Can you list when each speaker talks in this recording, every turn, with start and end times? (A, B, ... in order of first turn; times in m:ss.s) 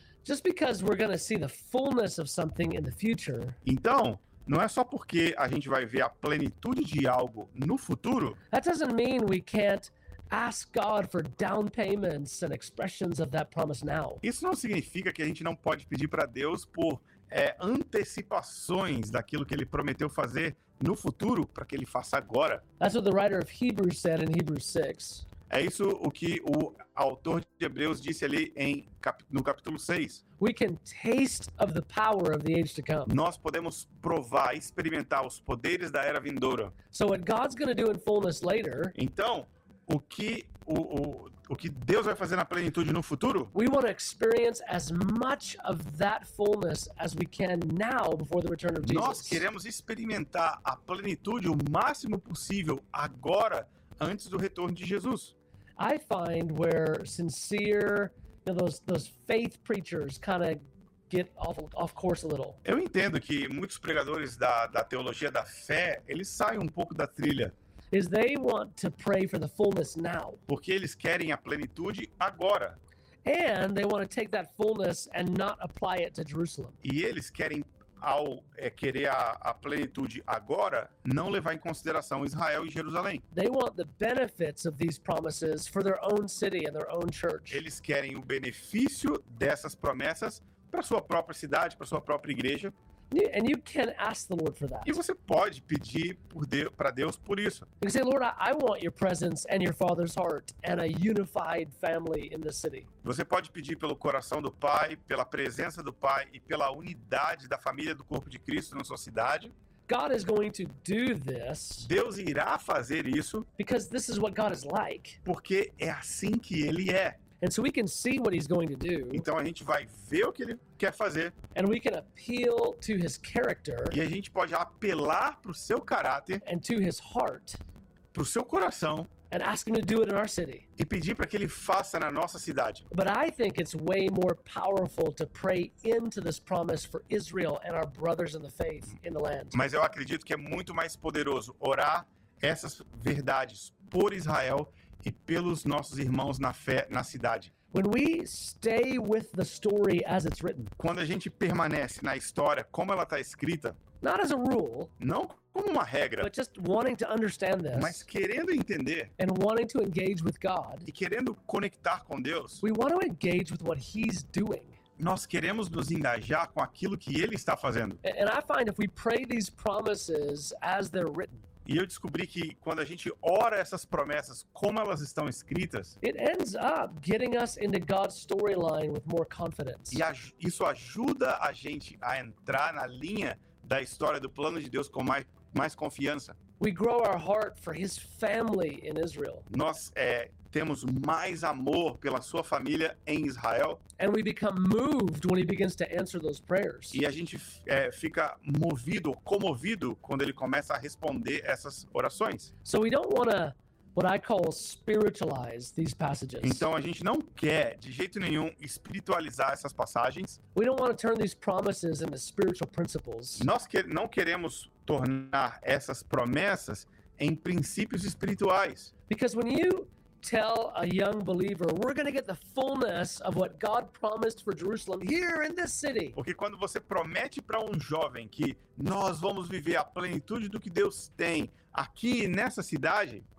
0:00.2-0:03.6 A
0:03.6-0:08.4 B
0:08.5-0:14.2 A
0:14.2-0:22.6 B
0:22.8-0:25.3 A
0:25.5-0:30.2 B
0:30.4-0:33.1 A
0:33.1-0:36.7 B
0:36.9-0:39.0 A
0:39.0-0:43.5 B
0:43.5-0:49.4 A
0:48.8-0:55.3 B
0:55.8-1:02.6 A
1:02.6-1:07.5 B
1:07.9-1:10.4 A
1:10.5-1:12.8 B
1:13.2-1:16.8 A
1:16.8-1:23.2 B
1:23.3-1:27.6 A
1:27.5-1:32.7 B
1:33.1-1:35.0 A
1:34.8-1:37.7 B
1:37.8-1:42.9 A
1:43.0-1:49.5 B
1:49.9-1:51.9 A
1:51.8-1:53.5 B
1:53.6-1:55.2 A
1:55.2-1:57.2 B
1:57.4-1:59.3 A
1:59.1-2:01.4 B
2:01.5-2:04.0 A
2:03.9-2:06.4 B
2:06.4-2:07.6 A
2:08.1-2:09.1 B
2:09.3-2:10.7 A
2:10.8-2:12.9 B
2:12.9-2:19.6 A
2:19.5-2:27.5 B
2:27.7-2:30.7 A
2:30.8-2:33.8 B
2:34.0-2:34.9 A
2:35.0-2:36.3 B
2:36.2-2:38.1 A
2:37.7-2:39.1 B
2:39.2-2:40.9 A
2:40.9-2:42.6 B
2:42.6-2:44.8 A
2:45.0-2:48.0 B
2:48.0-2:51.4 A
2:51.7-2:56.0 B
2:56.0-3:00.0 A
2:59.9-3:06.4 B
3:06.6-3:09.5 A
3:09.5-3:13.8 B
3:14.0-3:17.0 A
3:16.9-3:22.5 B
3:22.6-3:26.6 A
3:26.4-3:30.4 B
3:30.6-3:33.5 A
3:33.4-3:38.9 B
3:39.1-3:46.2 A
3:46.2-3:53.2 B